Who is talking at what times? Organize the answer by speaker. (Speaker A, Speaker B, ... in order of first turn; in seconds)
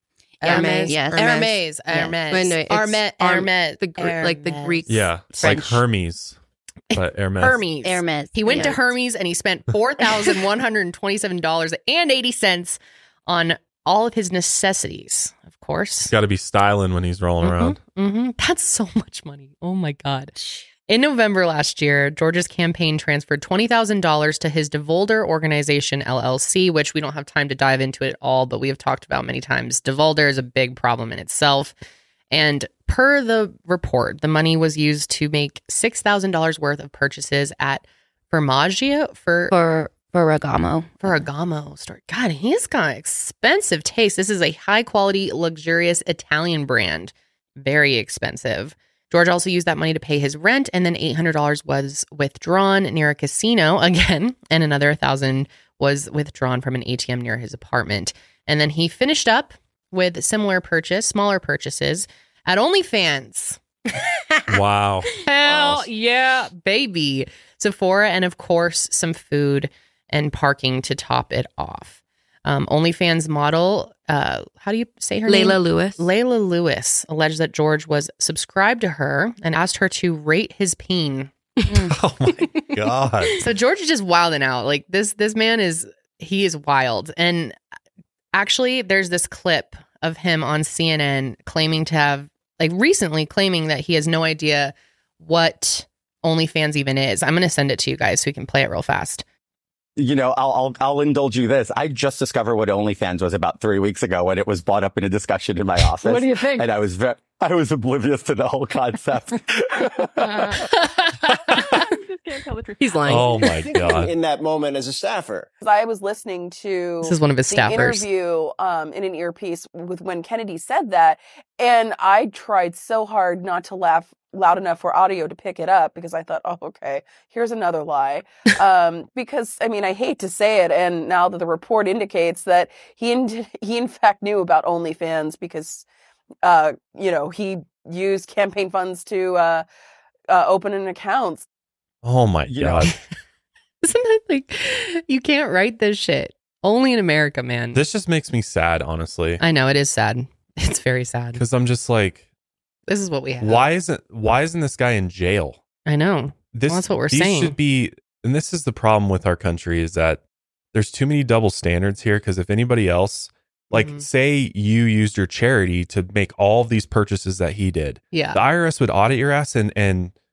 Speaker A: 0.4-5.6, 6.9-16.1, 17.4-20.3, 20.9-31.8, 32.3-39.5, 41.0-63.6, 65.2-81.3, 83.4-87.6, 88.3-99.2, 117.0-118.1, 143.8-147.8, 149.4-151.4, 152.9-153.7, 155.9-157.6, 163.7-164.1, 168.1-168.4
Speaker B: 0.4-1.4, 5.4-5.8, 7.8-8.9, 39.5-41.2
Speaker C: 0.4-1.6, 2.3-5.1, 75.3-76.0, 112.8-113.5
Speaker D: 4.9-6.4, 6.9-7.6, 16.1-17.8, 64.5-65.9, 81.8-83.4, 113.0-114.1, 142.0-143.0, 147.7-149.4, 151.3-152.2, 153.4-155.6, 156.5-160.2, 160.7-170.1
Speaker E: 100.0-110.8, 142.5-142.9
Speaker F: 106.1-106.6, 113.7-115.5
Speaker G: 115.6-135.8, 136.4-139.7, 140.3-141.5